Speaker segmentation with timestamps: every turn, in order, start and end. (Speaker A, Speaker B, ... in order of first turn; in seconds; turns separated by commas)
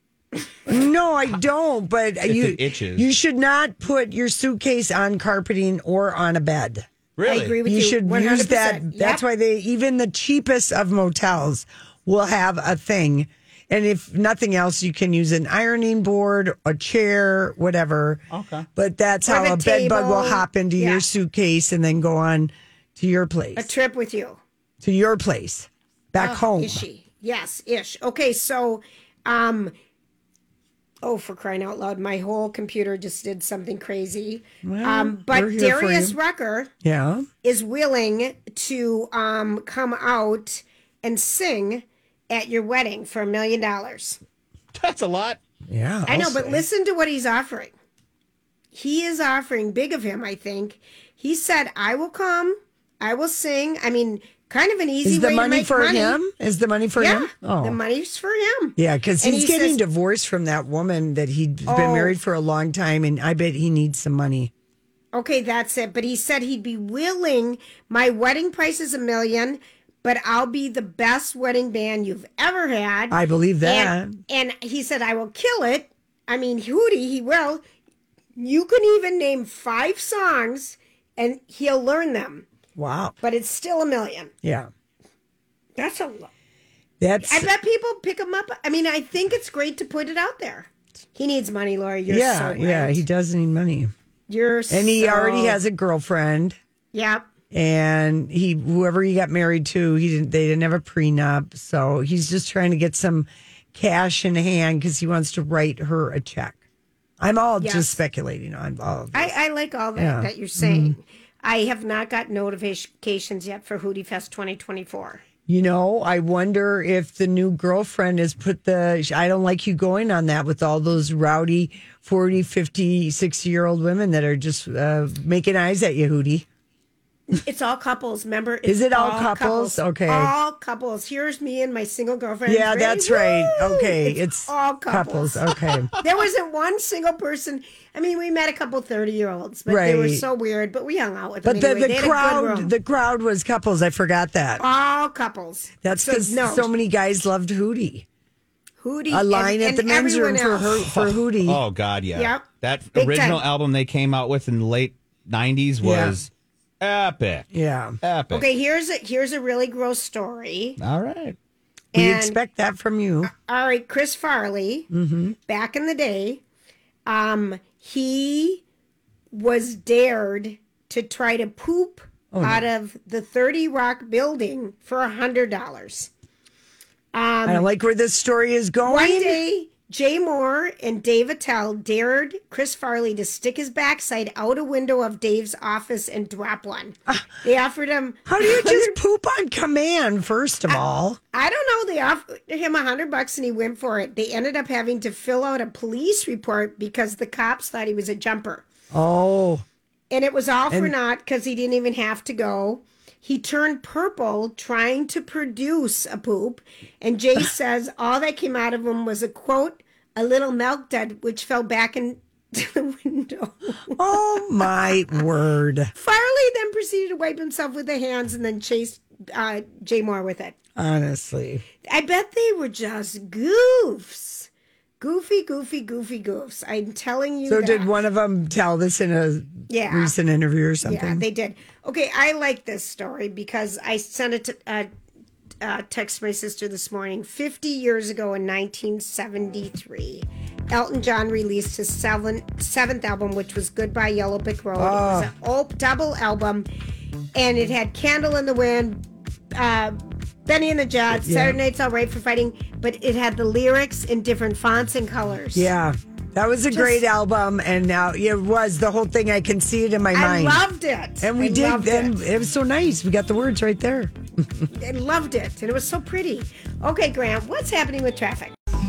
Speaker A: 0.7-6.8, Speaker B: 2.3-3.1, Speaker B: 7.2-7.6, Speaker C: 7.2-9.2, Speaker A: 7.6-18.2, Speaker B: 18.3-18.7, Speaker A: 18.8-23.7, Speaker C: 19.2-21.0, Speaker C: 23.6-24.4, Speaker A: 24.8-26.8, Speaker C: 26.2-29.7, Speaker C: 31.0-36.7, Speaker A: 34.6-36.2, Speaker A: 36.8-37.3, Speaker C: 37.4-44.2, Speaker B: 44.8-45.4, Speaker A: 45.7-46.6, Speaker C: 46.0-47.7, Speaker C: 48.7-56.2, Speaker A: 55.0-57.8, Speaker C: 57.0-59.8, Speaker A: 58.8-64.5, Speaker C: 61.6-62.1, Speaker C: 65.1-77.6, Speaker A: 73.1-74.2, Speaker C: 78.4-82.5, Speaker A: 82.8-83.2, Speaker C: 83.2-84.3, Speaker A: 84.4-84.7, Speaker C: 85.8-86.3, Speaker A: 87.0-87.5, Speaker C: 87.2-93.0, Speaker A: 92.1-93.9, Speaker C: 94.3-95.6, Speaker A: 94.7-96.5, Speaker C: 96.9-97.2, Speaker A: 97.5-106.6, Speaker A: 107.2-109.3, Speaker C: 107.6-108.0, Speaker C: 109.1-115.2, Speaker A: 110.0-111.0, Speaker A: 115.5-126.5, Speaker C: 127.3-142.7, Speaker A: 128.6-130.3, Speaker A: 132.4-135.9, Speaker A: 139.7-140.2, Speaker A: 141.4-144.6, Speaker C: 144.6-146.7, Speaker A: 145.8-148.1, Speaker C: 148.8-150.8, Speaker A: 149.1-151.6, Speaker B: 150.9-156.3, Speaker C: 152.1-152.4, Speaker C: 152.9-153.4, Speaker A: 155.8-156.2, Speaker B: 156.8-157.5, Speaker A: 157.5-158.0, Speaker B: 158.0-158.4, Speaker C: 158.3-160.8, Speaker B: 160.8-161.3, Speaker C: 161.9-162.4, Speaker A: 161.9-163.3, Speaker C: 163.2-164.9, Speaker A: 164.9-165.3, Speaker C: 165.5-166.4, Speaker C: 167.1-168.6, Speaker C: 169.3-176.1, Speaker A: 172.3-172.7, Speaker C: 177.1-177.7, Speaker A: 177.4-179.4, Speaker C: 178.8-188.9, Speaker A: 188.2-191.2, Speaker C: 190.7-198.7, Speaker A: 198.9-199.6, Speaker C: 200.1-214.0, Speaker A: 213.9-215.9, Speaker C: 215.9-220.6, Speaker A: 220.8-221.6, Speaker C: 221.8-224.5, Speaker C: 225.0-227.9, Speaker A: 227.4-231.2, Speaker C: 229.7-230.1, Speaker C: 230.8-234.9, Speaker C: 235.6-246.7, Speaker A: 244.8-245.3, Speaker C: 247.3-249.0, Speaker C: 249.5-255.7, Speaker A: 251.2-251.6, Speaker A: 255.5-260.6, Speaker C: 256.7-257.0, Speaker C: 260.1-262.1, Speaker A: 261.2-264.7, Speaker C: 264.7-268.5